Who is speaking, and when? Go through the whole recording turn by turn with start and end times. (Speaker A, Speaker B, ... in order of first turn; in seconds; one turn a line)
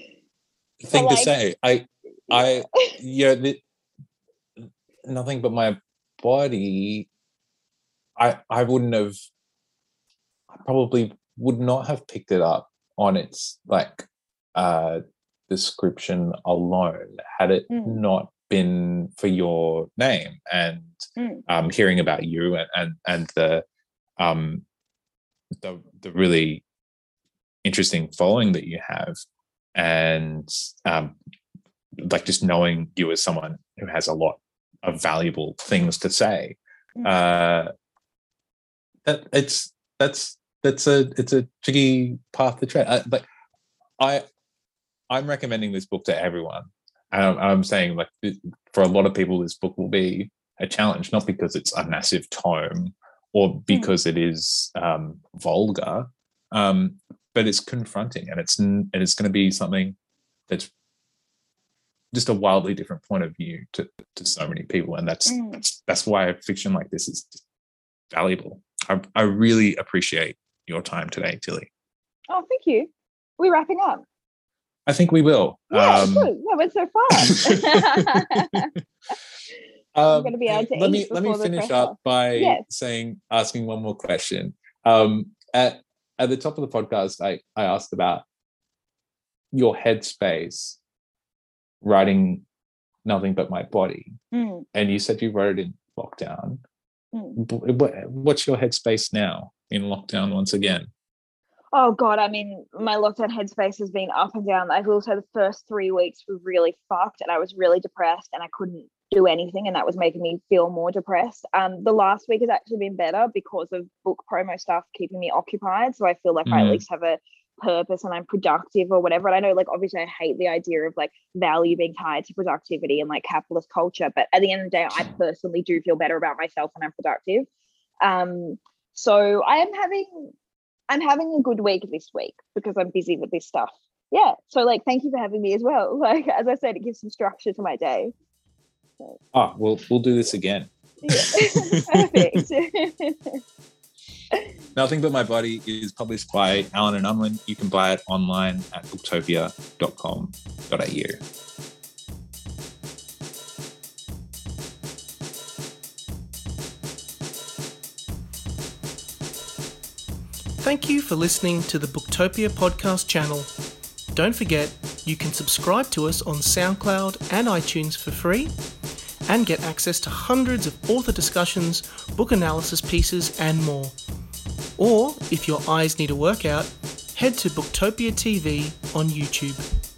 Speaker A: 0.8-3.6
Speaker B: 0.9-1.3
Speaker B: 2.3-3.0
Speaker A: 5.1-7.1
Speaker A: 8.2-9.1
Speaker A: 10.5-23.6
Speaker B: 17.7-18.0
Speaker B: 21.2-21.4
Speaker A: 24.2-24.6
Speaker A: 25.6-26.6
Speaker A: 27.6-29.2
Speaker A: 29.8-31.1
Speaker A: 32.0-37.7
Speaker A: 39.0-43.3
Speaker A: 44.0-44.2
Speaker A: 45.1-60.0
Speaker A: 62.1-67.4
Speaker B: 65.3-65.6
Speaker A: 68.1-71.7
Speaker B: 72.3-74.0
Speaker A: 74.9-76.3
Speaker B: 75.7-78.7
Speaker A: 77.3-78.7
Speaker A: 80.0-88.2
Speaker B: 80.1-82.6
Speaker A: 89.5-90.8
Speaker A: 91.8-92.4
Speaker A: 93.0-94.2
Speaker B: 94.3-94.7
Speaker A: 94.7-96.6
Speaker B: 97.1-97.4
Speaker A: 97.4-100.9
Speaker B: 101.7-127.5
Speaker A: 116.5-116.8
Speaker B: 128.0-130.3
Speaker B: 130.9-138.1
Speaker A: 139.3-142.4
Speaker B: 141.0-143.4
Speaker A: 144.8-151.2
Speaker C: 160.6-163.5
Speaker C: 164.1-168.5
Speaker C: 169.3-174.0
Speaker C: 174.8-179.7